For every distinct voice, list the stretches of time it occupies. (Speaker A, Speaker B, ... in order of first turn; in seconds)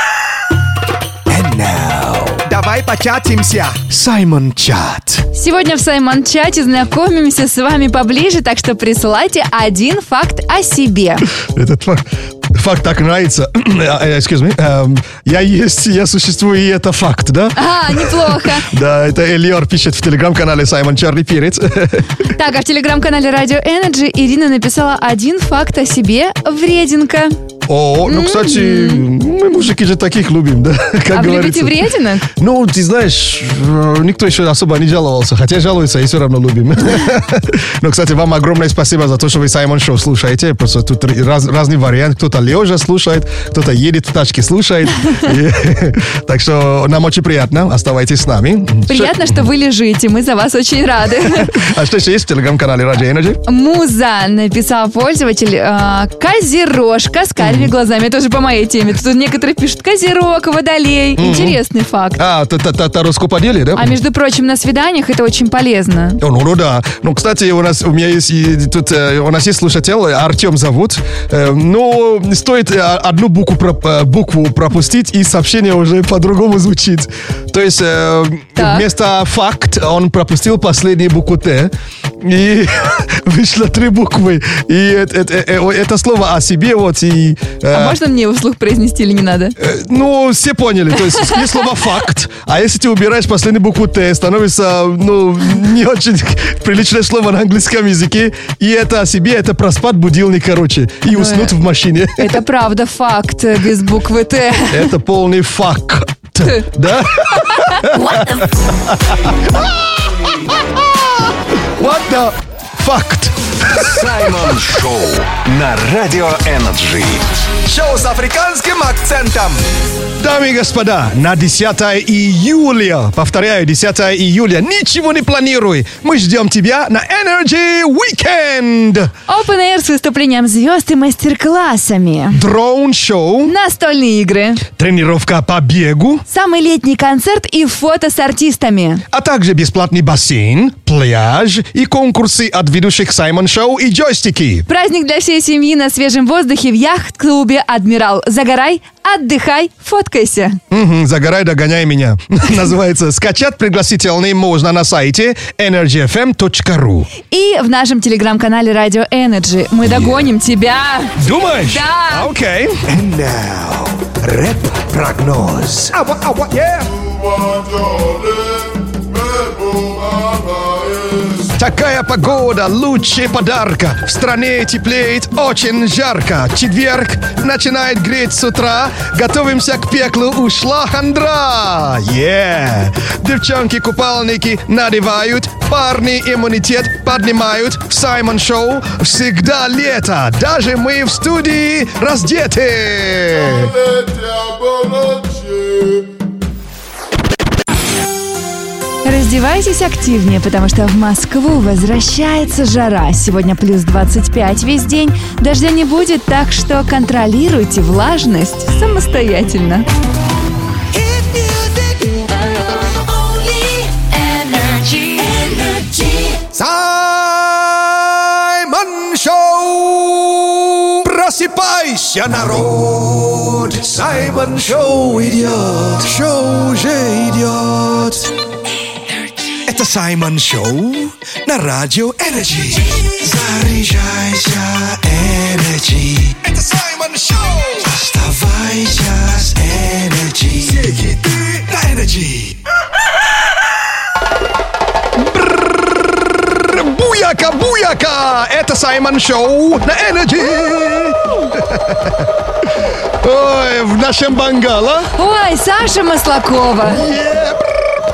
Speaker A: 1.3-2.5, 3.9-5.2, 162.9-166.9, 210.9-212.2, 213.1-217.8, 218.4-228.3, 229.7-242.6
Speaker B: 2.5-3.8, 117.7-119.6
Speaker C: 5.3-11.3, 17.6-18.7, 22.3-27.4, 28.1-29.1, 31.1-32.3, 48.9-51.6, 53.5-62.2, 63.8-66.2, 78.6-78.8, 87.7-89.5, 101.1-101.5, 102.2-104.9, 107.5-107.8, 129.3-132.4, 133.4-134.6, 136.3-139.0, 144.7-150.6, 157.3-162.3, 199.1-209.9, 255.2-257.0
Speaker D: 11.4-22.1, 27.7-49.3, 51.3-53.4, 57.4-57.7, 61.2-61.6, 62.2-64.0, 66.2-88.0, 89.6-102.4, 104.7-109.8, 110.7-111.1, 111.8-113.4, 120.2-129.1, 132.3-133.5, 134.8-136.2, 139.1-144.7, 150.7-157.1, 159.8-160.3, 161.2-162.8, 171.6-193.8, 245.2-252.3, 253.2-255.1, 256.8-257.6
Speaker E: 113.7-117.2